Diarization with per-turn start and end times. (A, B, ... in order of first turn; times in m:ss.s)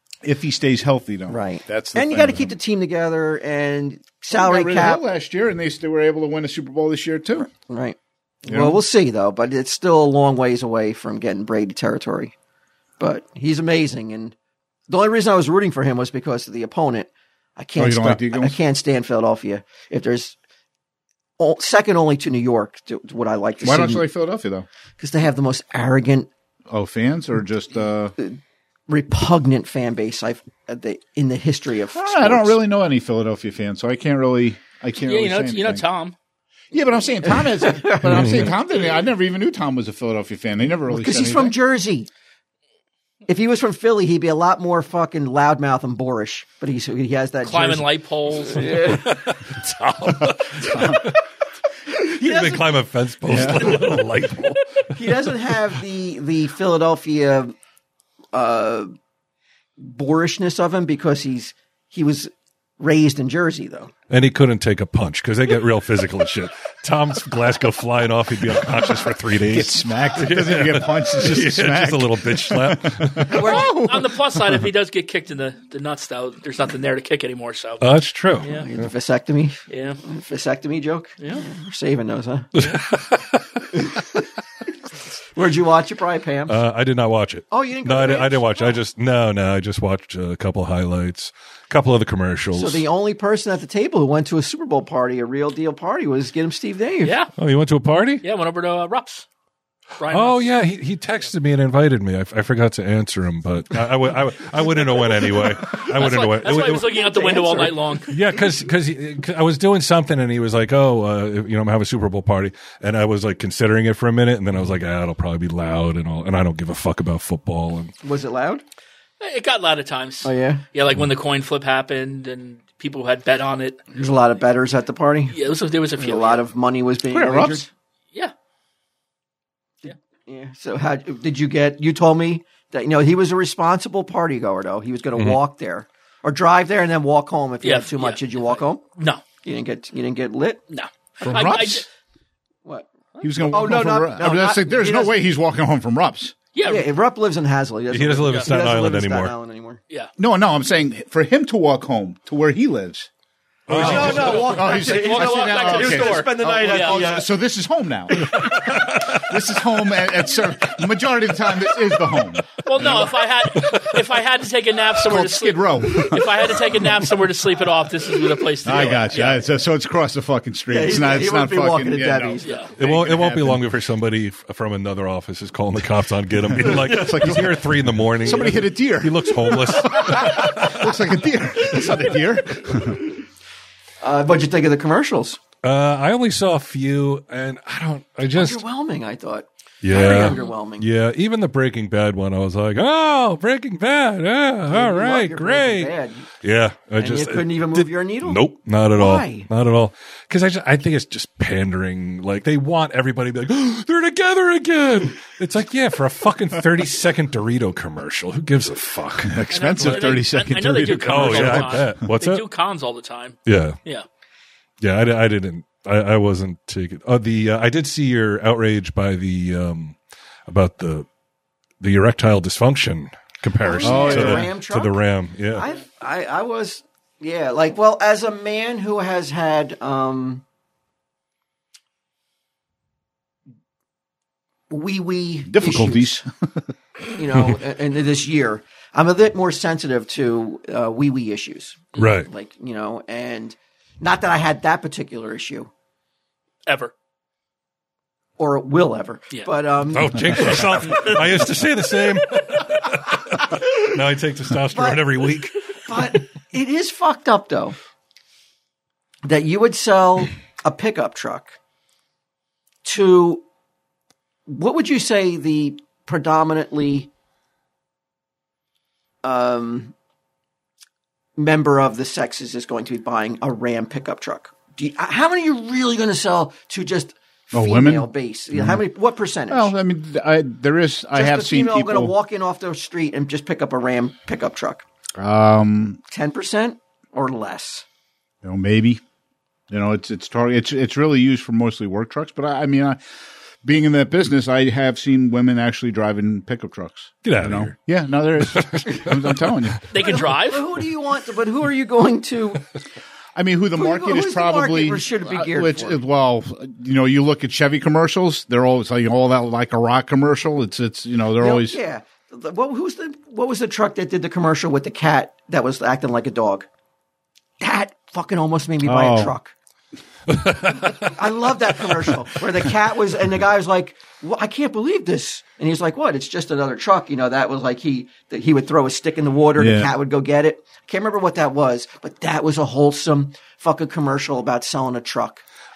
0:00.2-0:02.5 A
0:01.3-0:05.0 B
0:04.3-0:07.5 A
0:07.4-0:12.3 B
0:08.5-0:08.8 A
0:13.0-0:14.3 B
0:14.9-0:20.4 B
0:17.8-0:18.6 A
0:21.4-0:24.0 B
0:23.6-0:24.6 A
0:25.0-0:26.3 B
0:26.7-0:28.1 A
0:28.2-0:32.6 B
0:31.9-0:35.8 A
0:35.0-0:36.1 C
0:36.7-0:41.6 A
0:37.2-0:38.5 B
0:40.9-0:42.1 B
0:43.3-0:47.9 B
0:47.4-0:51.0 C
0:48.4-0:49.2 B
0:50.6-0:51.0 A
0:52.0-0:54.9 D
0:52.0-0:52.7 B
0:53.3-0:54.0 A
0:53.3-0:53.9 B
0:54.9-0:57.5 B
0:58.3-0:58.9 B
0:59.8-1:03.9 B
1:04.1-1:13.5 D
1:09.5-1:14.4 A
1:13.3-1:17.9 C
1:13.3-1:13.9 B
1:17.8-1:18.9 D
1:18.4-1:18.7 C
1:18.4-1:22.5 B
1:19.7-1:20.0 C
1:21.2-1:21.4 C
1:22.5-1:23.8 D
1:23.8-1:24.1 B
1:25.3-1:26.6 B
1:26.5-1:32.8 D
1:27.5-1:28.8 B
1:32.5-1:37.2 B
1:37.0-1:37.3 C
1:37.4-1:38.2 D
1:38.2-1:39.2 C
1:40.0-1:40.5 C
1:40.1-1:46.9 D
1:45.7-1:48.1 C
1:46.4-1:48.0 B
1:48.1-1:57.9 D
1:58.0-1:58.6 B
1:59.2-2:03.8 C
2:00.2-2:00.6 B
2:03.9-2:05.4 B
2:05.3-2:06.4 C
2:06.0-2:07.7 B
2:07.1-2:07.6 A
2:09.8-2:18.8 B
2:17.6-2:19.2 C
2:19.4-2:20.6 B
2:20.7-2:21.8 C
2:21.2-2:21.9 A
2:22.6-2:25.1 B
2:23.2-2:26.3 A
2:26.5-2:26.9 C
2:26.6-2:29.8 B
2:27.9-2:29.3 D
2:30.2-2:33.1 A
2:33.7-2:34.5 D
2:33.7-2:43.1 A
2:33.7-2:37.2 B
2:33.7-2:37.2 C
2:38.3-2:39.3 D
2:42.6-2:49.4 C
2:43.5-2:44.0 D
2:44.9-2:46.6 A
2:48.6-2:53.6 A
2:50.7-2:52.7 B
2:52.4-2:52.7 C
2:52.8-3:01.0 D
2:56.4-2:57.7 A
2:58.2-3:03.1 A
3:04.0-3:05.4 B
3:05.6-3:08.6 D
3:08.3-3:10.9 B
3:09.8-3:30.3 D
3:14.7-3:16.3 B
3:17.0-3:19.5 B
3:29.2-3:32.0 A
3:29.5-3:34.0 C
3:31.0-3:32.4 D
3:33.4-3:33.8 D
3:34.8-3:41.0 D
3:41.8-3:45.6 D
3:43.6-3:45.0 B
3:43.8-3:44.5 A
3:45.5-3:50.4 B
3:54.7-3:56.1 B
3:55.5-3:56.6 A
3:57.1-4:05.7 B
4:01.9-4:02.3 D
4:06.6-4:06.9 C
4:08.4-4:11.1 B
4:09.9-4:15.5 D
4:14.7-4:15.0 B
4:15.8-4:17.8 B
4:19.2-4:21.5 B
4:22.8-4:23.4 B
4:24.5-4:27.1 B
4:29.2-4:29.9 B
4:31.4-4:39.7 B
4:37.5-4:38.8 A
4:39.5-4:42.1 A
4:41.1-4:44.8 B
4:45.2-4:46.0 A
4:46.1-4:47.8 B
4:48.4-4:49.0 A
4:49.7-4:53.0 A
4:53.6-4:59.8 A
4:57.2-4:57.7 D
4:58.4-4:59.7 D
4:59.9-5:00.6 C
4:59.9-5:02.7 B
5:03.3-5:11.8 A
5:03.8-5:06.0 B
5:11.4-5:16.7 B
5:17.6-5:19.5 B
5:18.8-5:19.3 A
5:20.3-5:21.2 D
5:21.0-5:35.4 B
5:29.6-5:29.9 A